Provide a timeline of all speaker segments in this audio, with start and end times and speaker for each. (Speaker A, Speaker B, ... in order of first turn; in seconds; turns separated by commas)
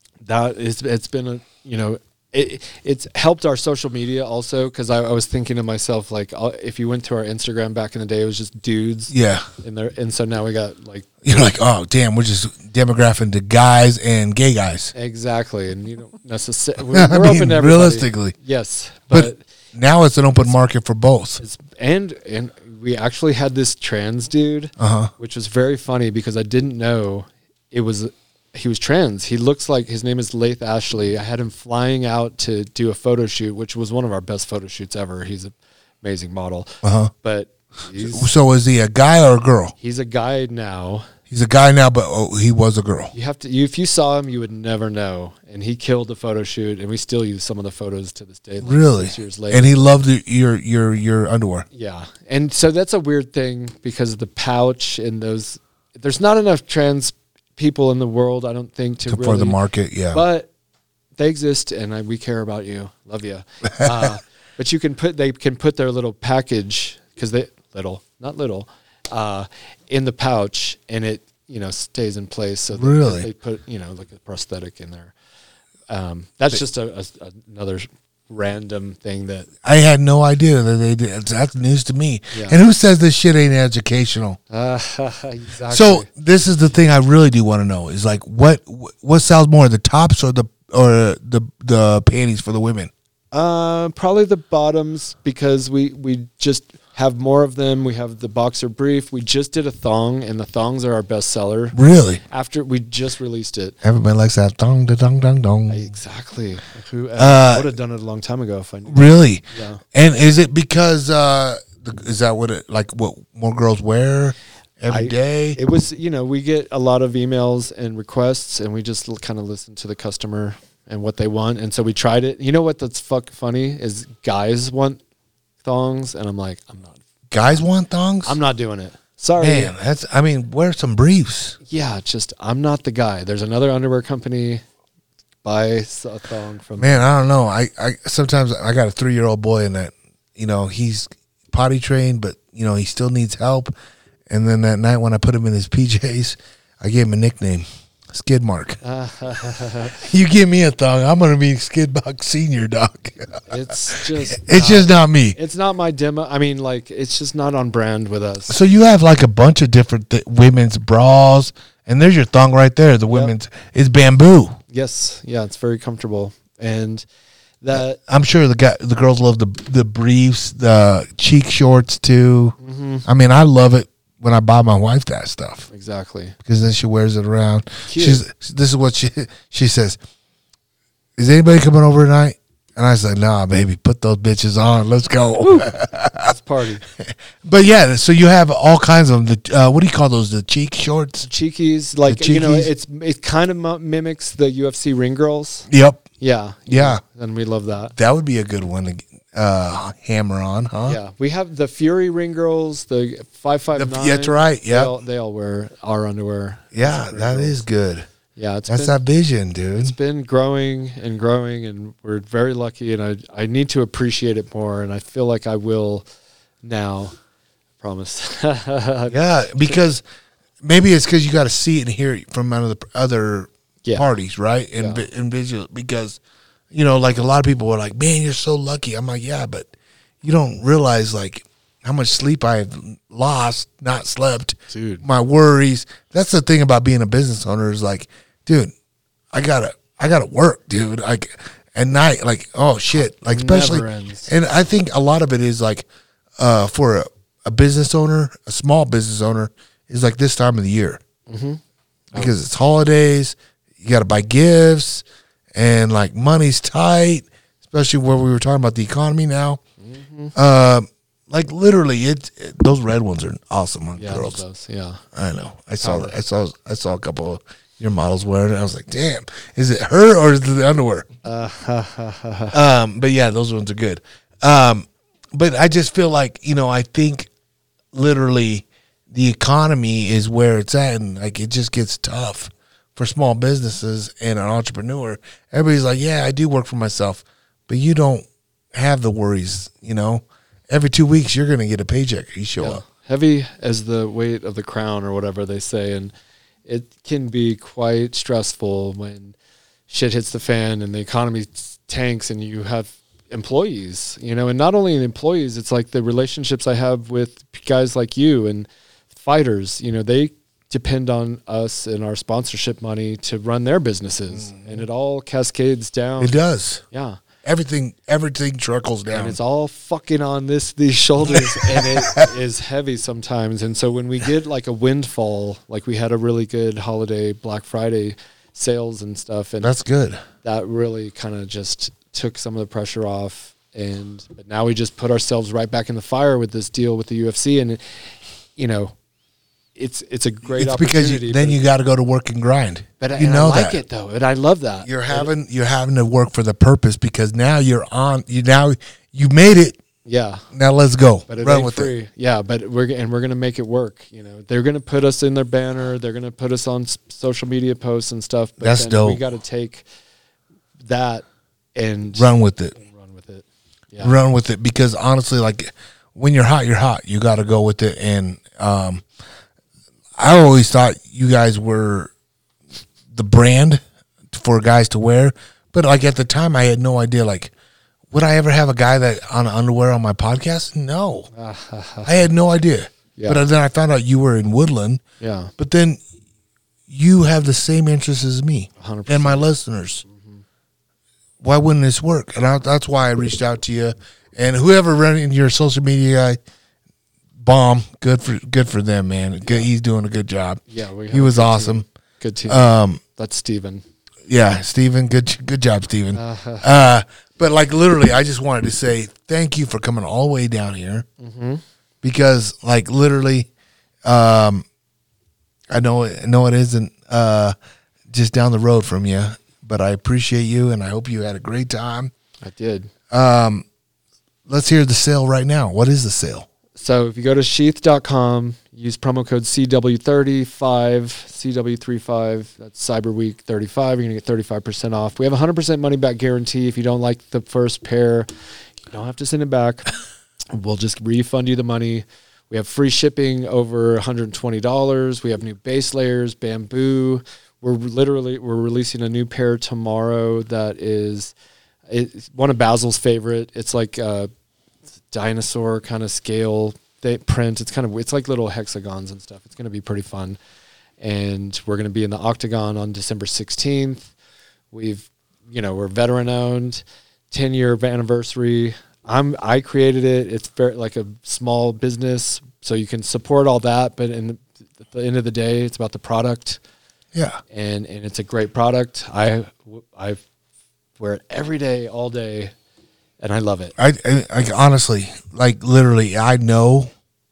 Speaker A: 0.2-11.1, Speaker B: 9.1-9.5, Speaker B: 11.2-14.9, Speaker A: 14.9-19.4, Speaker B: 16.9-18.4, Speaker B: 19.1-21.4, Speaker A: 21.4-38.3, Speaker B: 24.8-25.1, Speaker B: 36.8-37.1, Speaker B: 38.0-39.8, Speaker A: 39.8-41.1, Speaker B: 41.3-43.1, Speaker A: 43.1-49.7, Speaker B: 48.6-51.7, Speaker A: 51.7-59.6, Speaker B: 59.1-60.2, Speaker A: 60.1-60.5, Speaker A: 61.2-75.1, Speaker B: 63.6-64.1, Speaker B: 72.7-73.3, Speaker A: 75.9-79.5, Speaker B: 79.6-84.4, Speaker A: 82.3-82.6, Speaker A: 84.5-86.1, Speaker B: 85.7-92.9, Speaker A: 93.3-103.8, Speaker B: 101.7-102.2, Speaker B: 103.8-105.9, Speaker A: 105.7-109.8, Speaker B: 107.2-107.7, Speaker B: 108.9-115.6, Speaker A: 114.9-125.0, Speaker A: 125.6-127.0, Speaker B: 127.3-128.4, Speaker A: 128.2-129.7, Speaker B: 129.4-131.6, Speaker A: 131.7-134.6, Speaker A: 135.4-137.0, Speaker B: 136.8-143.7, Speaker B: 144.3-148.8, Speaker A: 148.8-150.0, Speaker B: 150.0-155.4, Speaker A: 153.5-158.6, Speaker B: 158.5-164.6, Speaker A: 164.7-167.1, Speaker A: 167.6-168.0, Speaker B: 167.7-175.7, Speaker A: 172.6-173.1, Speaker A: 175.7-176.3, Speaker B: 176.4-180.0, Speaker A: 177.9-178.2, Speaker B: 181.2-186.3, Speaker A: 185.4-186.8, Speaker B: 187.0-191.3, Speaker A: 191.2-195.7, Speaker B: 192.1-192.7, Speaker B: 195.7-196.1, Speaker A: 196.2-197.9, Speaker B: 196.7-197.0, Speaker B: 198.0-201.0, Speaker A: 200.8-207.6, Speaker B: 203.8-204.9, Speaker B: 206.7-208.1, Speaker A: 208.3-209.0, Speaker B: 208.7-209.9, Speaker A: 209.8-216.1, Speaker A: 216.6-217.2, Speaker A: 217.8-219.8, Speaker B: 219.1-220.0, Speaker B: 220.6-226.2, Speaker A: 224.8-225.1, Speaker B: 226.7-229.7, Speaker B: 230.2-238.7, Speaker A: 234.7-235.0, Speaker B: 239.3-245.9, Speaker A: 243.0-244.3, Speaker B: 246.4-251.0, Speaker A: 251.3-251.6, Speaker B: 252.2-255.0, Speaker B: 255.6-259.6, Speaker A: 259.8-260.4, Speaker B: 260.4-264.4, Speaker A: 264.0-265.0, Speaker B: 265.1-271.1, Speaker A: 265.8-266.2, Speaker A: 271.2-272.6, Speaker B: 272.5-277.3, Speaker B: 277.9-292.8, Speaker A: 292.6-296.1, Speaker A: 296.7-299.4, Speaker A: 299.9-316.4, Speaker B: 314.3-314.8, Speaker B: 316.2-316.8, Speaker A: 316.9-317.2, Speaker B: 317.4-319.4, Speaker A: 319.1-329.7, Speaker B: 321.3-322.3, Speaker B: 329.6-330.2, Speaker A: 330.4-338.9, Speaker A: 339.8-341.6, Speaker B: 340.5-343.8, Speaker A: 343.0-345.3, Speaker B: 344.8-349.8, Speaker A: 350.1-350.5, Speaker B: 350.5-351.9, Speaker A: 351.3-359.9, Speaker B: 358.6-359.2, Speaker A: 360.8-361.2, Speaker A: 361.8-364.1, Speaker B: 362.1-362.8, Speaker B: 364.0-369.0, Speaker B: 370.2-372.1, Speaker B: 373.1-377.5, Speaker B: 378.1-381.3, Speaker A: 381.4-382.1, Speaker B: 382.1-385.0, Speaker A: 383.2-383.4, Speaker A: 385.2-385.5, Speaker B: 385.6-386.0, Speaker B: 386.9-390.0, Speaker A: 388.8-389.5, Speaker A: 390.1-390.4, Speaker B: 391.4-396.4, Speaker B: 397.4-401.9, Speaker A: 400.7-403.8, Speaker B: 402.5-403.0, Speaker B: 404.3-411.1, Speaker A: 406.1-406.7, Speaker A: 411.2-411.6, Speaker B: 412.0-413.5, Speaker B: 414.1-414.6, Speaker B: 415.7-417.5, Speaker B: 418.1-422.1, Speaker A: 422.4-422.9, Speaker B: 423.1-423.6, Speaker B: 424.5-426.5, Speaker A: 426.8-438.3, Speaker A: 438.9-439.9, Speaker A: 440.5-451.3, Speaker A: 451.9-454.3, Speaker A: 455.1-460.4, Speaker A: 461.0-464.1, Speaker A: 464.7-476.6, Speaker B: 477.1-477.4, Speaker A: 477.5-480.2, Speaker A: 481.0-482.5, Speaker A: 483.2-483.7, Speaker B: 483.8-486.9